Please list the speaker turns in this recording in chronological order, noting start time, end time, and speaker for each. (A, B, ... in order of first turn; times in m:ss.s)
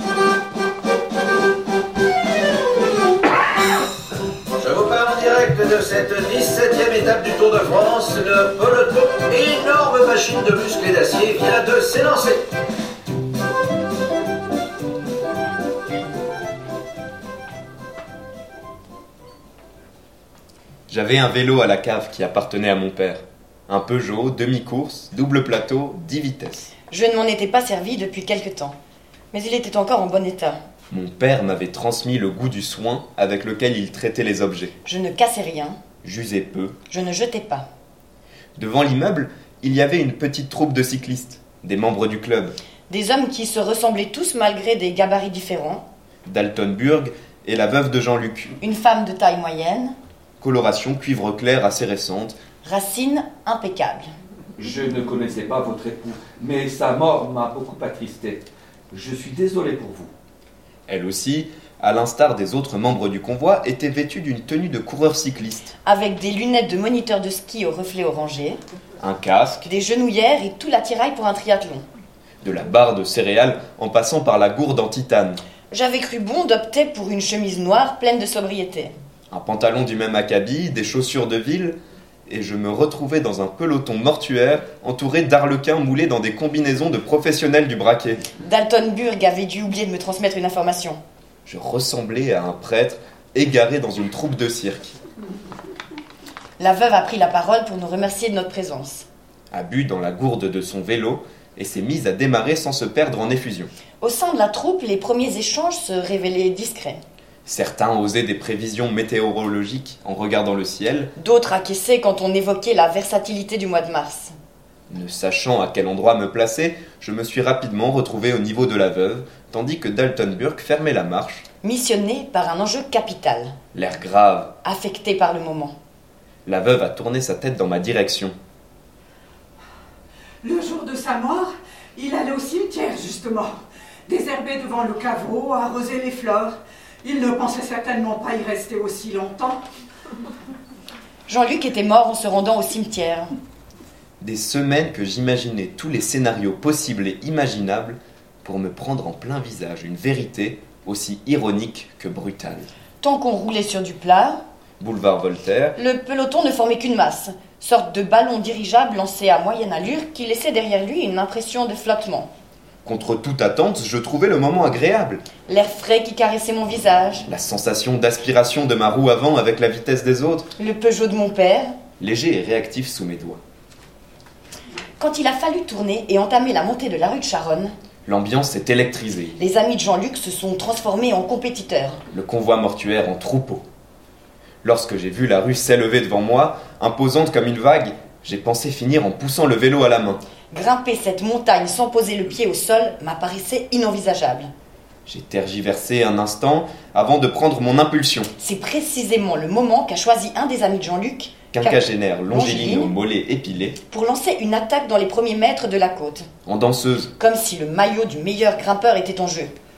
0:04.6-0:12.5 A
0:20.9-0:26.7 B
0:26.9-0:28.8 C
0:29.3-0:30.6 C
0:30.9-0:34.8 B
0:34.8-0:35.8 C
0:36.0-0:36.8 B
0:36.9-0:37.7 C
0:38.6-0:42.6 B
0:42.9-0:45.8 C
0:46.2-0:48.6 B
0:48.6-0:50.0 C
0:50.4-0:52.4 B
0:52.6-0:54.1 C
0:54.6-1:00.1 D
1:00.9-1:05.7 B
1:05.8-1:08.6 C
1:09.0-1:09.7 B
1:09.6-1:11.8 C
1:12.4-1:15.4 B
1:15.7-1:18.9 C
1:19.3-1:21.8 B
1:22.3-1:28.3 B
1:28.4-1:31.0 C
1:31.5-1:35.0 B
1:36.6-1:39.1 C
1:39.5-1:43.7 B
1:44.0-1:47.0 C
1:47.5-1:51.1 B
1:51.2-1:54.3 C
1:54.9-2:01.5 B
2:01.6-2:03.6 C
2:03.7-2:04.6 B
2:04.6-2:05.8 C
2:06.5-2:08.4 B
2:10.4-2:19.6 E
2:21.3-2:23.3 C
2:24.2-2:32.7 B
2:33.0-2:34.4 C
2:34.8-2:35.8 B
2:35.8-2:42.3 C
2:42.8-2:45.3 B
2:45.4-2:47.2 C
2:47.3-2:50.5 B
2:50.6-2:51.7 C
2:52.0-2:53.4 B
2:55.0-2:57.7 C
2:58.1-2:59.4 B
2:59.4-3:02.0 C
3:02.1-3:03.6 B
3:04.6-3:10.2 B
3:10.5-3:14.5 C
3:15.1-3:18.3 B
3:18.4-3:22.9 C
3:21.5-3:23.8 B
3:23.9-3:26.3 C
3:26.5-3:27.1 B
3:27.2-3:29.5 C